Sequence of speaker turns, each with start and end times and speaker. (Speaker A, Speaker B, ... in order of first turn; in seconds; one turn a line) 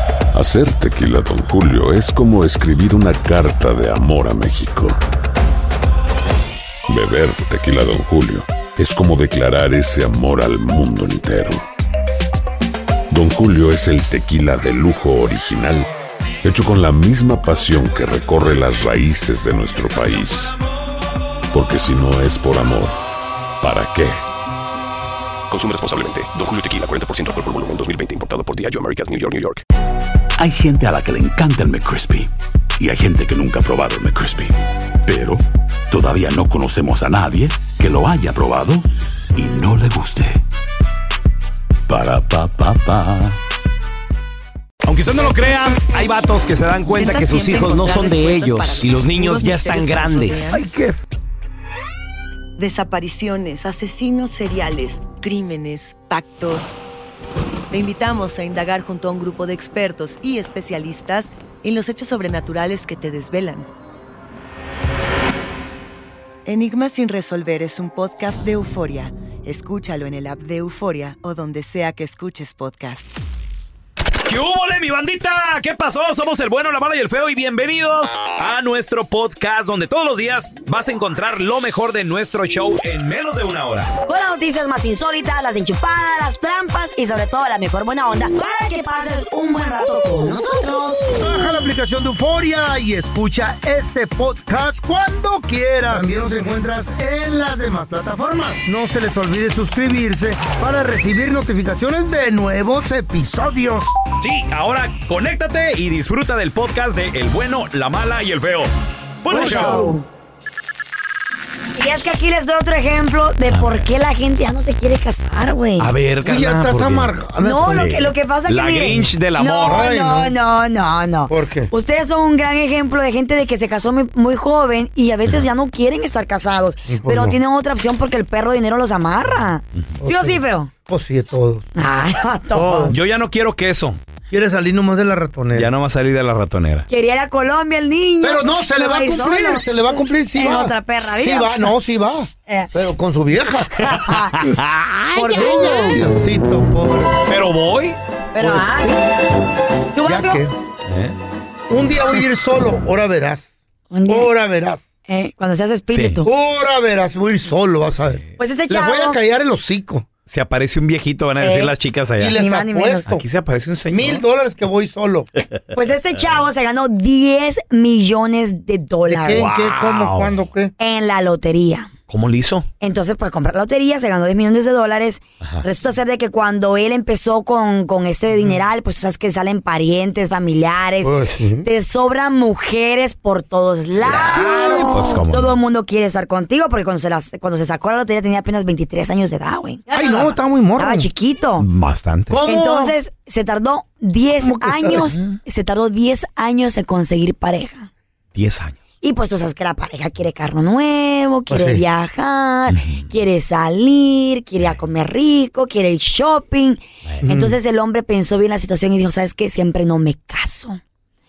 Speaker A: 0.3-5.0
Speaker A: 6.9-11.6
Speaker A: 13.1-15.9
Speaker A: 16.4-20.6
Speaker A: 21.5-23.0
Speaker A: 23.6-24.2
Speaker B: 25.5-29.6
Speaker C: 30.4-40.4
Speaker C: 41.9-43.4
Speaker D: 44.9-50.6
Speaker E: 46.9-50.6
Speaker F: 50.5-51.1
Speaker E: 52.6-56.7
Speaker E: 57.7-63.7
Speaker E: 66.5-73.2
Speaker D: 74.2-83.9
Speaker G: 84.0-91.2
Speaker F: 91.1-103.9
Speaker D: 104.2-108.7
Speaker D: 109.2-109.9
Speaker G: 109.3-110.1
Speaker F: 109.3-109.9
Speaker G: 111.8-115.9
Speaker D: 113.5-113.9
Speaker D: 115.8-117.1
Speaker F: 116.2-118.0
Speaker G: 117.4-130.7
Speaker D: 117.7-119.8
Speaker F: 119.6-120.3
Speaker F: 121.3-121.7
Speaker F: 126.9-127.4
Speaker F: 130.0-131.7
Speaker G: 131.8-132.9
Speaker F: 132.5-132.9
Speaker D: 132.9-134.0
Speaker F: 134.3-135.7
Speaker D: 135.6-136.9
Speaker G: 136.9-141.7
Speaker F: 138.2-144.0
Speaker G: 142.5-142.7
Speaker G: 143.8-144.5
Speaker D: 144.0-145.0
Speaker G: 145.1-146.0
Speaker F: 145.2-147.2
Speaker D: 147.3-148.0
Speaker G: 148.3-149.0
Speaker F: 148.4-149.0
Speaker G: 149.9-150.4
Speaker F: 150.0-150.6
Speaker D: 150.9-151.2
Speaker F: 151.7-153.5
Speaker G: 153.9-154.3
Speaker F: 154.1-154.8
Speaker G: 155.1-156.3
Speaker D: 155.9-156.2
Speaker F: 156.2-160.1
Speaker D: 158.1-158.3
Speaker G: 158.4-159.2
Speaker D: 160.3-162.4
Speaker G: 161.4-161.7
Speaker F: 162.2-163.2
Speaker G: 162.4-163.1
Speaker D: 163.1-164.2
Speaker F: 163.9-165.3
Speaker G: 165.7-169.5
Speaker F: 169.1-170.7
Speaker D: 169.3-170.4
Speaker G: 170.8-171.9
Speaker D: 172.1-172.7
Speaker G: 172.8-190.1
Speaker F: 181.0-181.7
Speaker F: 184.0-185.1
Speaker D: 184.2-185.6
Speaker F: 189.9-191.1
Speaker G: 190.8-191.7
Speaker D: 191.6-192.4
Speaker F: 192.3-192.9
Speaker G: 192.5-197.9
Speaker F: 194.4-195.2
Speaker D: 198.3-198.8
Speaker G: 199.0-210.8
Speaker F: 201.5-201.8
Speaker D: 202.7-203.1
Speaker F: 207.2-207.6